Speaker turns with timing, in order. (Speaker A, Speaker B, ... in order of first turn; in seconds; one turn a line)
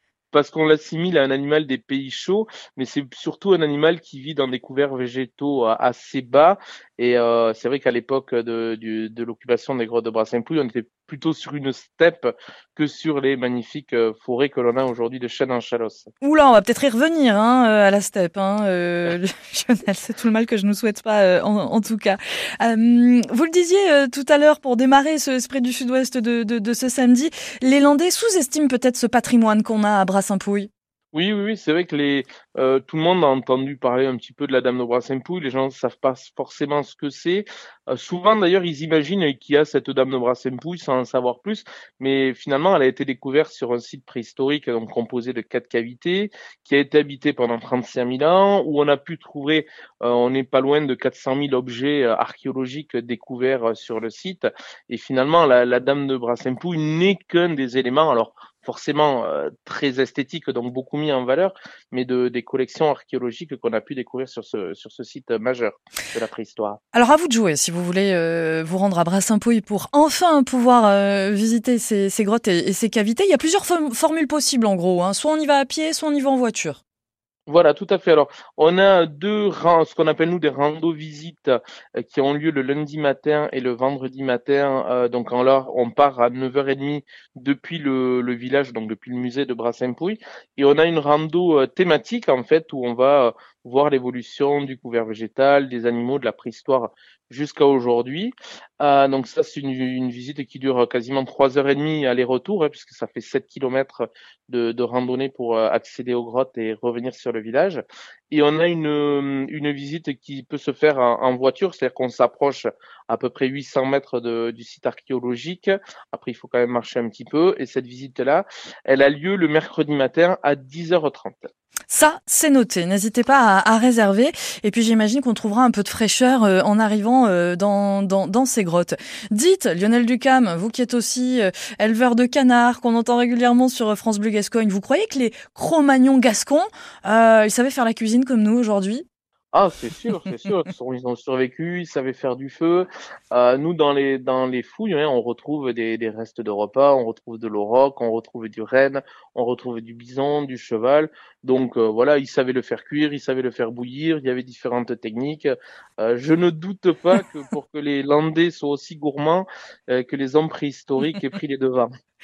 Speaker A: 0.3-16.1
Speaker B: 16.2-30.7
Speaker A: 31.1-66.8
Speaker B: 66.9-76.8
Speaker A: 77.5-121.5
Speaker B: 121.9-139.1
Speaker A: 139.5-161.9